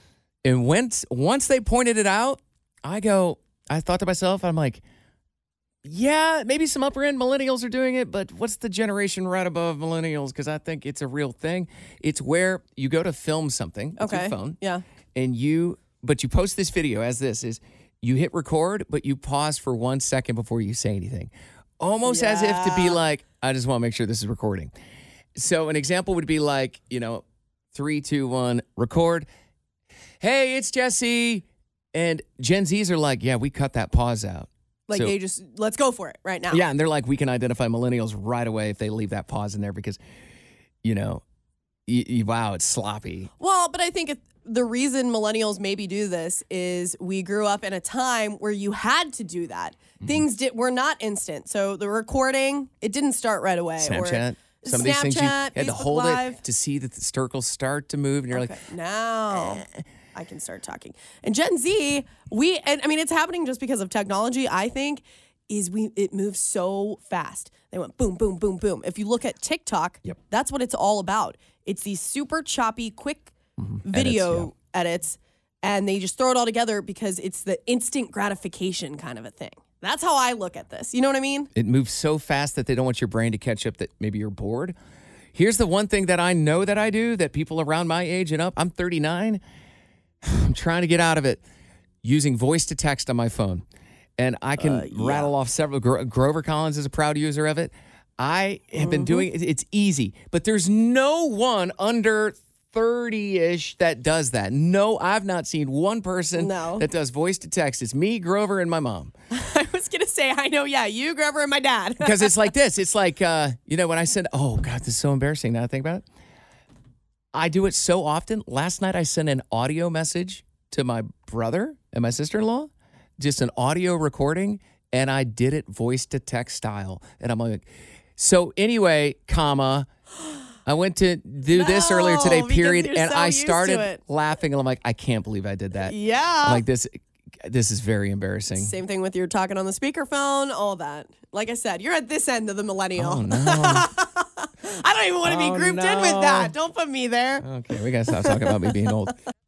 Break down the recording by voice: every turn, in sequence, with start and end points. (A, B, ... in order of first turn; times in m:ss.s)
0:00.4-0:04.8 A
0:05.8-0:14.6 A
0:14.0-0:14.8 B
0:15.1-0:24.7 A
0:22.1-0:23.0 B
0:25.4-0:29.3 A
0:30.2-0:35.1 A
0:34.9-0:36.6 B
0:36.5-0:40.0 A
0:40.8-0:41.2 A
0:41.9-0:43.3 A
0:43.4-0:56.4 B
0:53.8-0:58.6 A
0:58.3-1:13.3 B
0:59.3-0:59.8 A
1:13.6-1:14.5 A
1:13.9-1:21.5 B
1:21.6-1:24.8 A
1:25.3-1:29.4 A
1:30.2-1:31.4 A
1:32.0-1:33.6 A
1:34.2-1:49.1 A
1:34.6-1:35.3 B
1:38.8-1:39.2 B
1:46.4-1:46.9 B
1:49.3-1:52.4 B
1:52.0-1:56.0 A
1:57.3-2:07.6 A
2:08.2-2:09.9 A
2:10.6-2:18.8 A
2:11.5-2:14.0 B
2:15.9-2:16.6 B
2:18.6-2:27.4 B
2:23.0-2:23.9 A
2:25.2-2:26.6 A
2:27.4-2:29.1 A
2:28.1-2:28.6 B